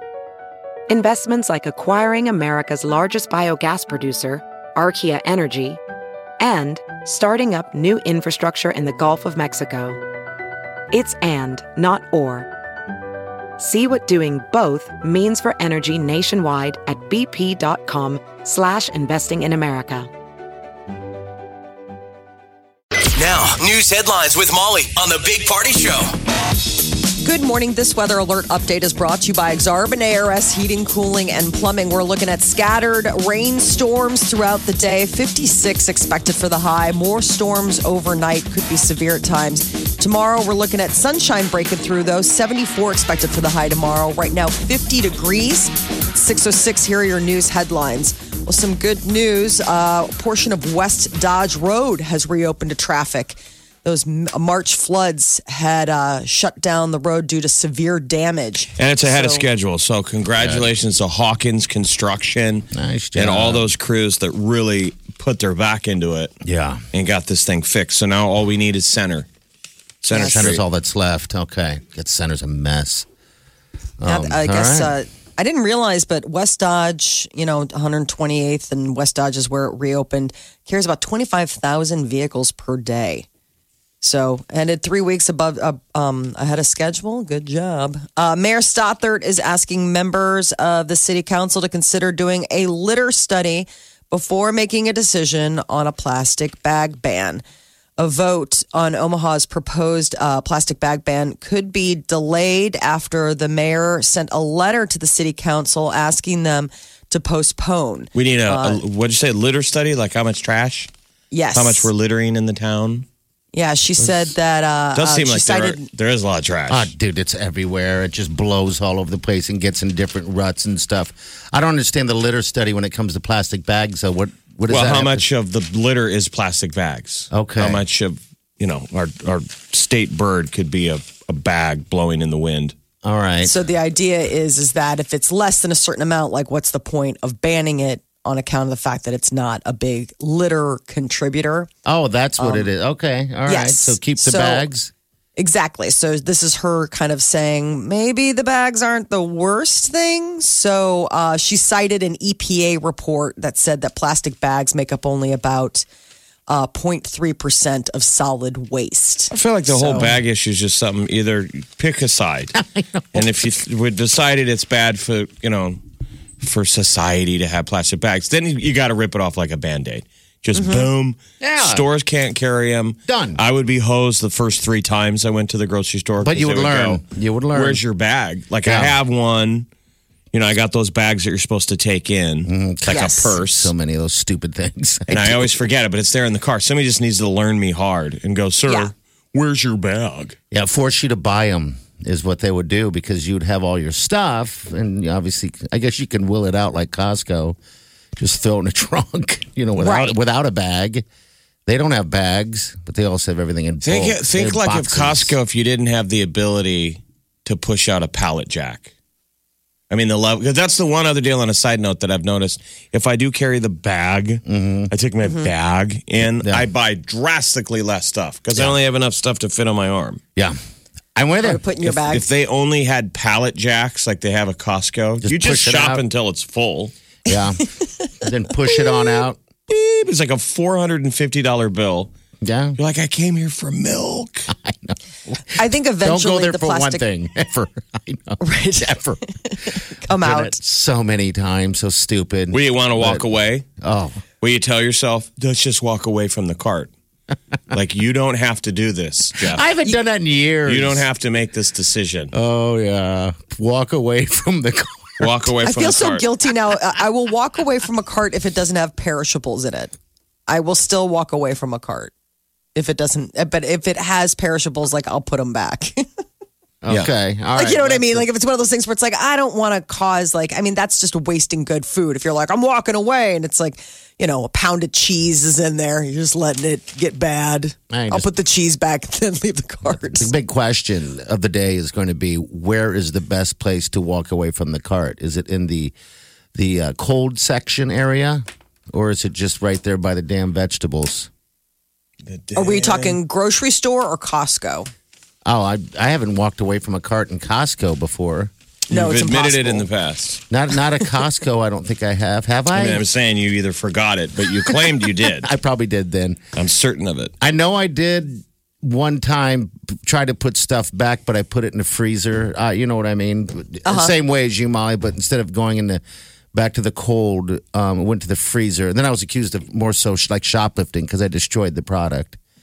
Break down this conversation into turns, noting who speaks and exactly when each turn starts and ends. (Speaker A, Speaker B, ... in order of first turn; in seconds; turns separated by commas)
Speaker A: 0.9-5.8, Speaker A: 6.4-10.0, Speaker A: 10.9-12.5, Speaker A: 13.6-20.1, Speaker B: 23.1-26.1, Speaker C: 27.2-59.4, Speaker D: 58.8-66.3, Speaker E: 60.4-60.7, Speaker E: 62.7-63.7, Speaker E: 66.4-66.8, Speaker D: 66.9-69.3, Speaker D: 70.0-70.6, Speaker C: 70.1-70.5, Speaker E: 70.1-73.1, Speaker E: 74.0-74.9, Speaker C: 74.1-83.3, Speaker C: 84.0-97.4, Speaker C: 98.0-108.8, Speaker D: 108.1-110.9, Speaker C: 111.3-111.9, Speaker D: 111.5-113.1, Speaker C: 113.5-115.9, Speaker D: 114.9-116.9, Speaker E: 116.7-125.2, Speaker D: 124.7-132.7, Speaker E: 127.3-127.8, Speaker E: 133.0-133.5, Speaker C: 133.4-141.7, Speaker E: 141.8-144.9, Speaker C: 142.4-142.7, Speaker C: 143.4-144.7, Speaker C: 145.4-155.8, Speaker C: 156.5-160.1, Speaker D: 159.3-162.6, Speaker E: 162.6-163.3, Speaker D: 163.1-165.8, Speaker D: 166.4-177.0, Speaker C: 170.5-170.9, Speaker E: 171.4-171.8, Speaker E: 173.1-173.4, Speaker E: 176.2-177.8, Speaker D: 177.5-179.7, Speaker E: 178.6-178.9, Speaker D: 180.3-183.7, Speaker E: 182.4-185.6, Speaker C: 182.9-183.3, Speaker D: 185.1-190.3, Speaker E: 190.5-197.6, Speaker E: 198.2-201.1, Speaker C: 199.8-200.2, Speaker E: 201.7-205.3, Speaker D: 203.8-208.9, Speaker D: 209.9-220.2, Speaker E: 214.4-214.9, Speaker C: 215.2-215.5, Speaker E: 221.2-221.6, Speaker C: 221.4-222.2, Speaker D: 221.8-226.9, Speaker E: 225.2-226.0, Speaker E: 227.3-227.6, Speaker C: 227.3-228.1, Speaker E: 228.2-229.4, Speaker C: 228.7-229.0, Speaker D: 229.7-232.1, Speaker E: 232.4-232.8, Speaker D: 232.8-234.5, Speaker E: 234.5-235.4, Speaker C: 235.5-237.0, Speaker E: 236.0-239.2, Speaker C: 238.4-240.6, Speaker E: 240.1-243.2, Speaker D: 242.5-243.6, Speaker E: 243.8-244.2, Speaker D: 244.4-246.9, Speaker D: 247.7-249.7, Speaker E: 249.4-251.0, Speaker D: 250.7-252.3, Speaker E: 252.3-255.3, Speaker D: 255.2-256.2, Speaker C: 255.6-259.9, Speaker C: 260.5-262.1, Speaker C: 262.8-266.1, Speaker E: 266.8-268.3, Speaker C: 267.6-280.3, Speaker E: 277.9-278.3, Speaker E: 279.9-285.9, Speaker E: 286.6-291.3, Speaker D: 292.2-293.2, Speaker C: 292.6-294.9, Speaker E: 295.4-298.5, Speaker C: 298.9-299.9, Speaker D: 298.9-300.4, Speaker E: 300.5-303.0, Speaker D: 302.7-305.5, Speaker E: 304.6-306.4, Speaker D: 306.6-307.3, Speaker E: 307.4-316.0, Speaker C: 313.8-314.1, Speaker E: 316.5-322.4